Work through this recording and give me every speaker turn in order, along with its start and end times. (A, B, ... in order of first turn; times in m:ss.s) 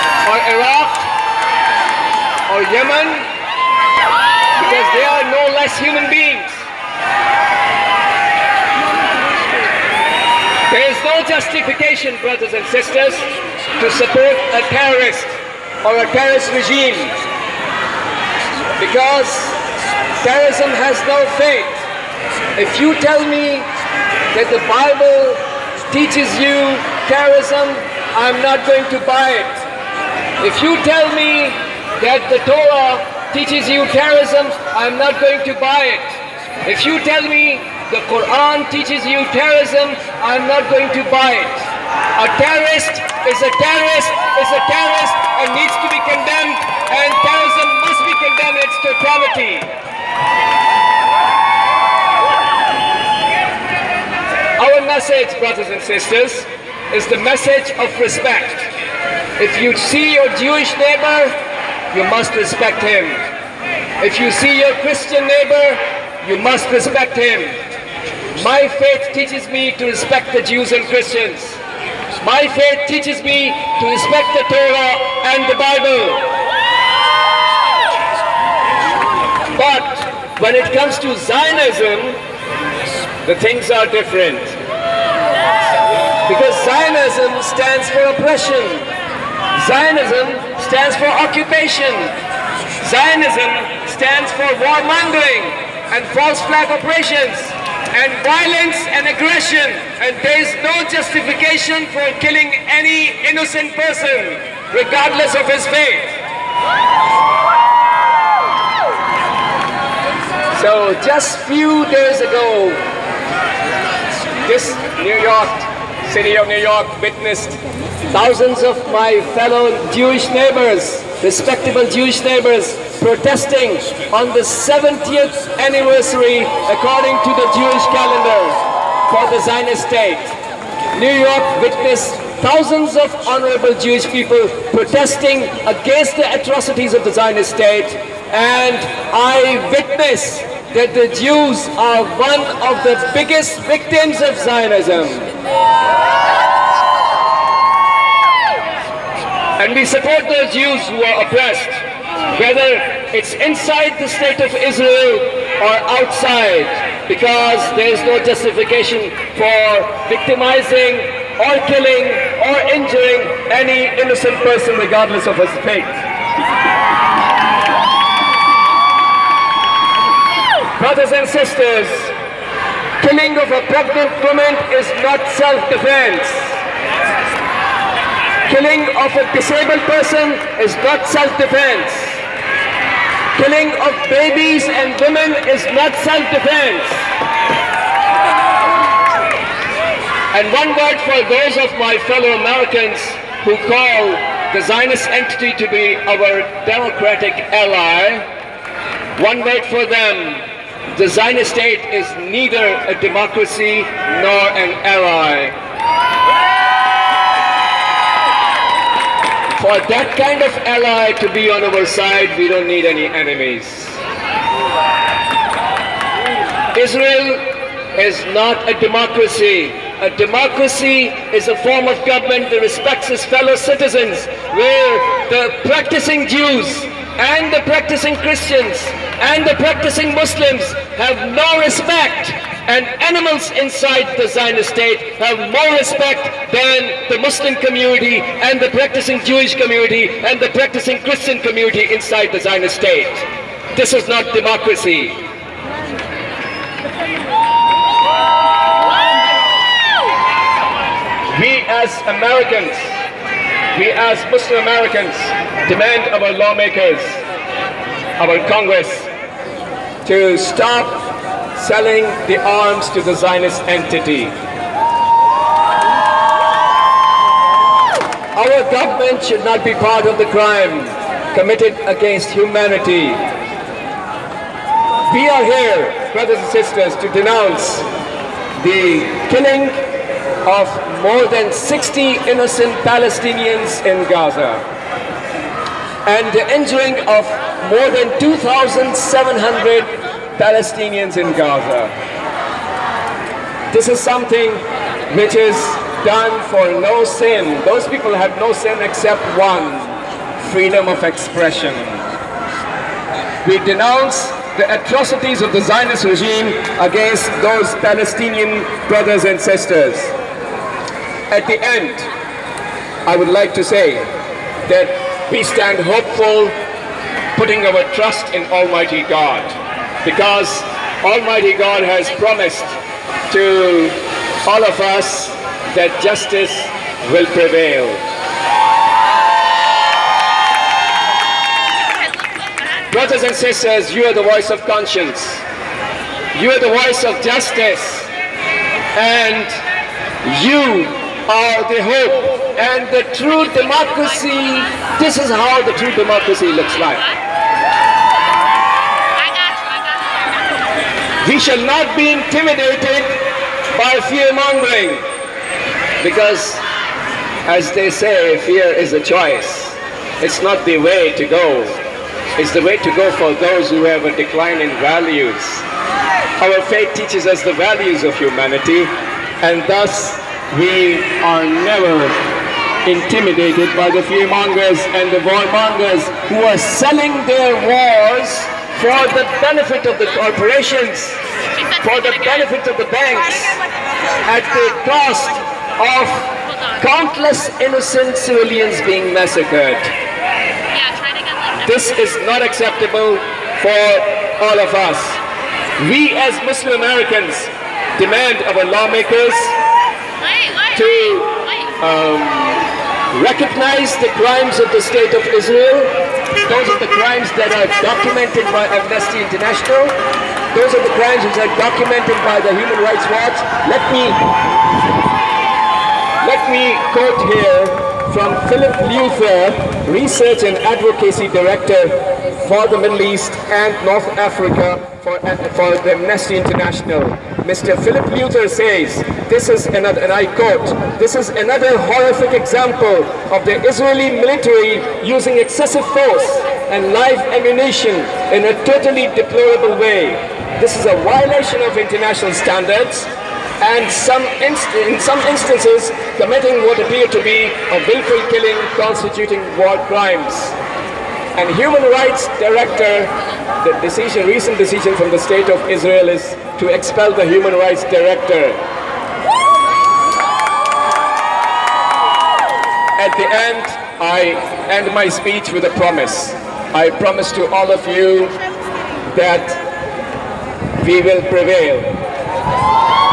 0:00.2-0:01.1 A
0:02.5-0:03.3 A
0:04.6-0:06.6 A
0:10.7-0:17.2 A
0:18.8-0:19.6 A
0:20.2-0:21.8 A
0:22.6-0:23.7 A
0:24.3-0:29.6 A
0:30.4-0:49.7 A
0:54.6-0:58.7 A
0:59.4-1:01.4 A
1:01.9-1:03.2 A
1:04.0-1:07.6 A
1:08.3-1:11.6 A
1:12.2-1:16.3 A
1:19.5-1:22.2 A
1:23.2-1:24.5 A
1:26.2-1:28.9 A
1:29.5-1:32.1 A
1:32.8-1:46.1 A
1:50.5-1:52.8 A
1:54.4-1:57.6 A
1:58.1-2:10.3 A
2:10.9-2:25.3 A
2:29.6-2:31.8 A
2:32.3-2:46.0 A
2:50.8-2:52.1 A
2:53.0-2:56.6 A
2:58.4-3:02.2 A
3:03.3-3:07.1 A
3:10.3-3:18.2 A
3:19.2-3:25.5 A
3:29.6-3:34.0 A
3:36.7-4:05.2 A
4:11.3-4:12.9 A
4:13.7-4:17.2 A
4:18.2-4:19.1 A
4:20.0-4:24.3 A
4:28.3-4:33.2 A
4:35.1-4:37.8 A
4:38.6-4:39.8 A
4:40.4-4:44.6 A
4:46.0-4:51.9 A
4:53.7-5:02.0 A
5:03.4-5:10.1 A
5:11.3-5:12.1 A
5:13.0-5:14.1 A
5:14.7-5:16.6 A
5:17.3-5:22.8 A
5:23.3-5:28.0 A
5:32.9-5:35.4 A
5:36.3-5:38.1 A
5:38.9-5:39.6 A
5:40.2-5:47.1 A
5:51.2-5:55.0 A
5:56.0-5:56.6 A
5:57.4-6:01.8 A
6:02.4-6:05.6 A
6:06.4-6:12.2 A
6:12.8-6:21.2 A
6:21.8-6:23.6 A
6:24.2-6:29.9 A
6:31.6-6:35.2 A
6:35.8-6:39.6 A
6:40.7-6:45.9 A
6:46.4-6:50.0 A
6:50.5-6:54.2 A
6:56.2-7:23.1 A
7:23.6-7:30.5 A
7:31.4-7:38.6 A
7:43.0-7:48.4 A
7:49.1-7:49.6 A
7:50.8-7:51.9 A